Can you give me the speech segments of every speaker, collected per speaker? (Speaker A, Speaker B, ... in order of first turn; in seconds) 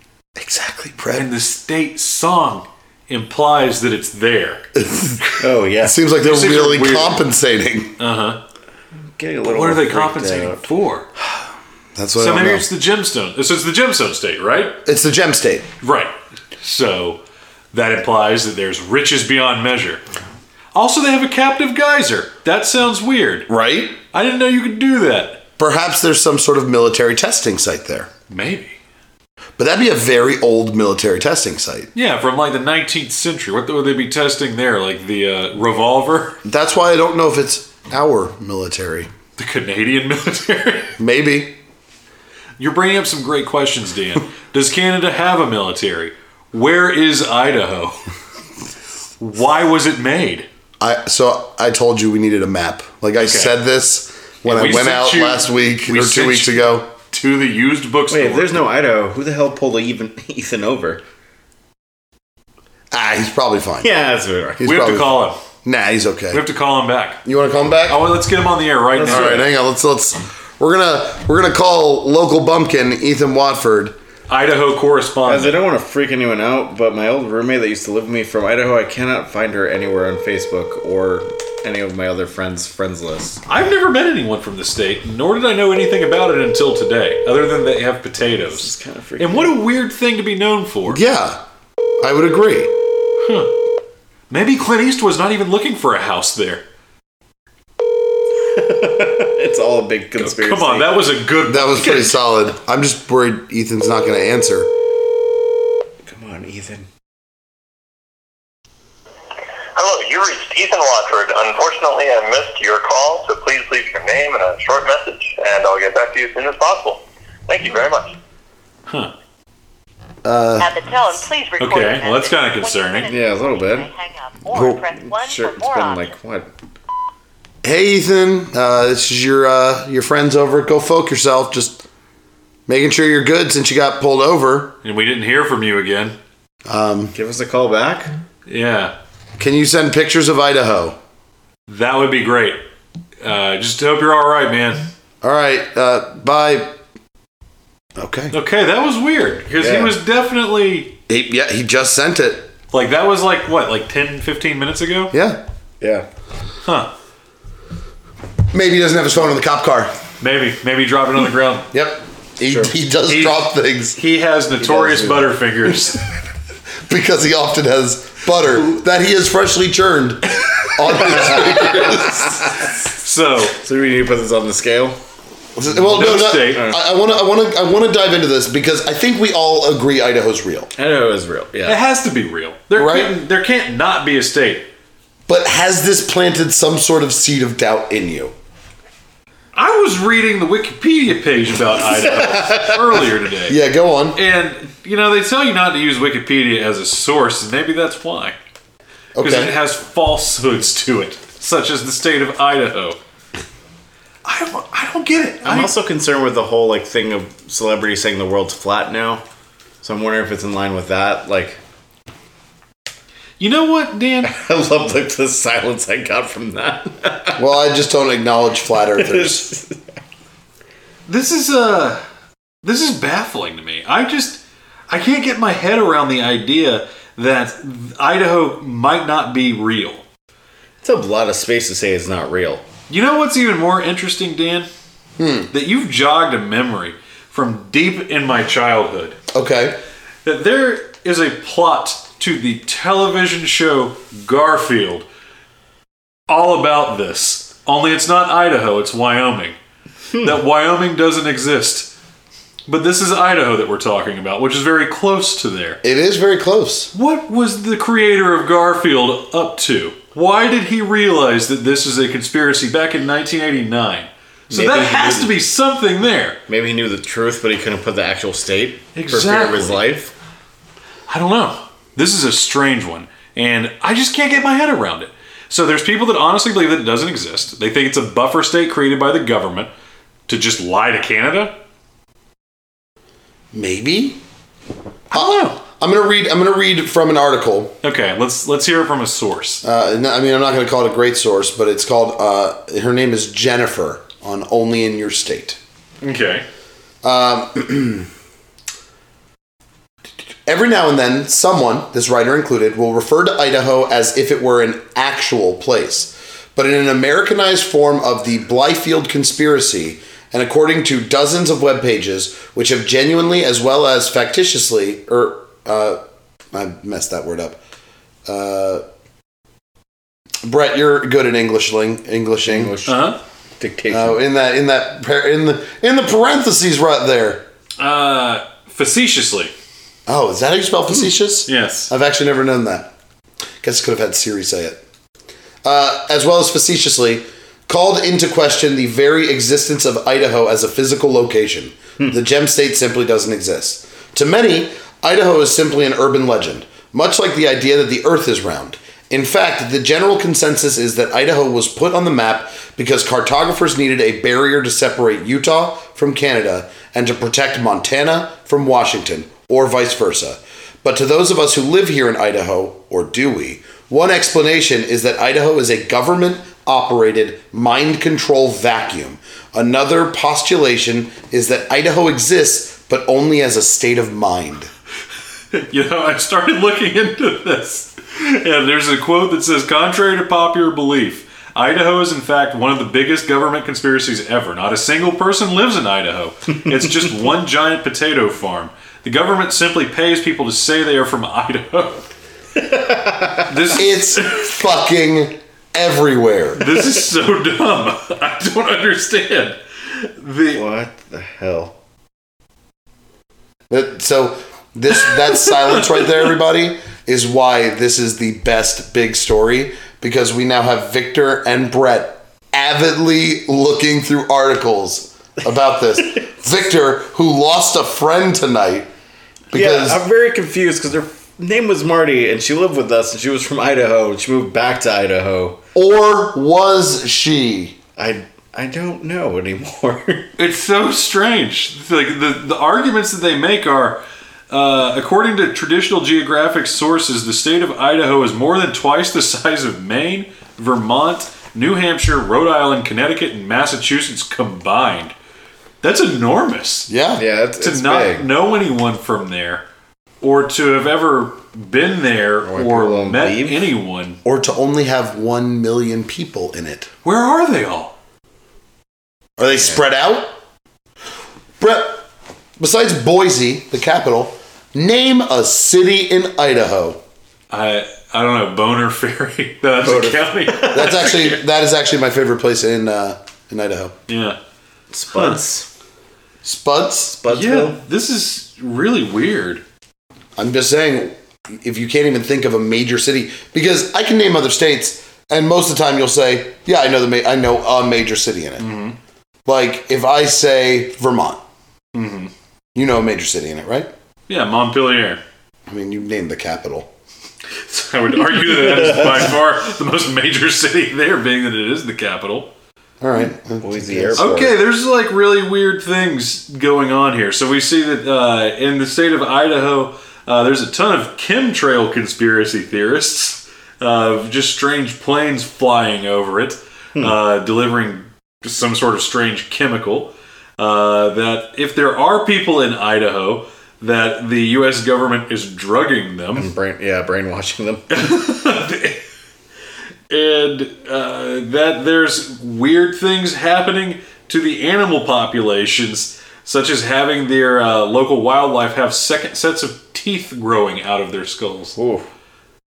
Speaker A: 0.4-1.3, 4.8-7.9, 11.9-12.7, 14.8-15.7, 23.5-24.0, 25.6-28.1, 29.6-31.9, 36.4-39.1, 41.0-41.6, 50.8-56.9, 62.9-63.9, 64.6-66.4, 67.2-68.0, 69.0-73.9, 90.9-91.4, 92.0-92.7, 101.5-104.7, 120.2-120.7, 127.6-131.8, 132.7-134.7, 136.7-137.1, 139.4-141.0, 145.2-146.8, 148.0-148.3, 151.1-152.5, 155.1-155.4, 158.5-159.9, 161.7-164.0, 166.9-172.5, 175.6-180.7, 182.7-183.1, 185.3-188.3, 193.5-194.2, 199.2-199.5, 217.4-219.5, 235.2-235.5, 239.3-239.8, 255.8-256.9, 283.5-284.2, 285.1-287.7, 289.6-295.6, 297.0-298.1, 300.4-316.0, 316.5-317.6, 318.2-318.8, 320.4-322.7, 323.9-327.4, 330.1-332.9, 333.6-334.8, 335.6-374.7, 393.8-396.7, 403.7-418.9, 419.5-420.0, 425.7-427.8, 446.9-447.2, 454.2-456.9, 459.4-460.3, 461.6-462.0, 462.6-467.0, 470.7-473.9, 476.4-477.2, 480.4-488.7, 489.4-491.4, 492.7-493.9, 495.7-496.9, 503.0-504.5
Speaker B: 1.1-4.6, 6.2-7.2, 8.0-8.4, 9.4-11.1, 12.2-14.8, 15.8-17.2, 17.7-20.0, 20.7-23.5, 24.1-25.4, 28.3-28.8, 31.9-36.4, 39.4-40.9, 42.6-48.0, 49.2-50.5, 53.2-53.5, 54.4-58.6, 64.6-65.4, 66.3-67.2, 67.9-69.5, 74.3-75.6, 83.5-91.0, 93.2-93.5, 94.3-96.6, 100.2-102.2, 121.6-123.2, 134.8-136.2, 138.5-138.9, 141.7-142.6, 143.2-144.9, 148.3-150.9, 152.7-155.1, 156.6-156.9, 160.2-161.7, 163.1-166.0, 172.9-173.6, 175.8-176.7, 181.7-184.7, 189.5-193.6, 194.1-198.3, 199.2-203.0, 204.2-205.7, 213.4-214.3, 221.1-222.0, 222.6-230.0, 232.9-234.7, 235.5-239.2, 240.2-245.1, 246.3-249.6, 250.2-251.9, 252.7-255.8, 256.9-266.4, 268.9-269.8, 271.1-279.7, 280.3-281.6, 285.1-285.6, 287.8-289.6, 296.0-296.4, 322.9-323.2, 327.8-329.5, 331.5-331.9, 375.5-392.1, 393.4-394.5, 396.6-400.6, 405.3-406.2, 430.4-445.1, 445.8-446.9, 447.6-449.6, 450.2-454.2, 457.0-457.9, 467.5-471.4, 474.1-474.4, 475.1-475.4, 477.3-479.6, 488.6-488.9, 491.9-492.3, 494.3-495.2, 497.6-502.5, 504.2-526.5, 527.9-529.0, 530.1-541.8
Speaker C: 5.4-6.0, 9.1-10.6, 58.1-61.0, 63.8-64.7, 68.9-69.5, 75.2-83.4, 88.3-89.5, 98.3-101.0, 106.0-106.9, 123.1-123.9, 124.6-126.5, 137.1-138.1, 149.6-150.0, 155.8-156.1, 162.4-162.7, 164.6-165.3, 171.0-172.5, 173.6-175.0, 176.5-176.8, 180.8-181.8, 191.8-193.1, 205.4-209.2, 209.8-211.6, 214.2-217.4, 218.9-219.8, 230.8-232.6, 264.5-265.4, 266.5-270.1, 322.4-324.2, 392.6-393.5, 400.5-401.7, 419.5-425.6, 428.0-430.3, 447.1-448.3, 452.4-453.6, 469.8-470.6, 474.9-475.7, 477.2-477.8, 498.6-499.2, 503.6-504.5, 526.3-527.8, 541.8-542.1
Speaker D: 109.7-118.2
Speaker E: 120.5-126.1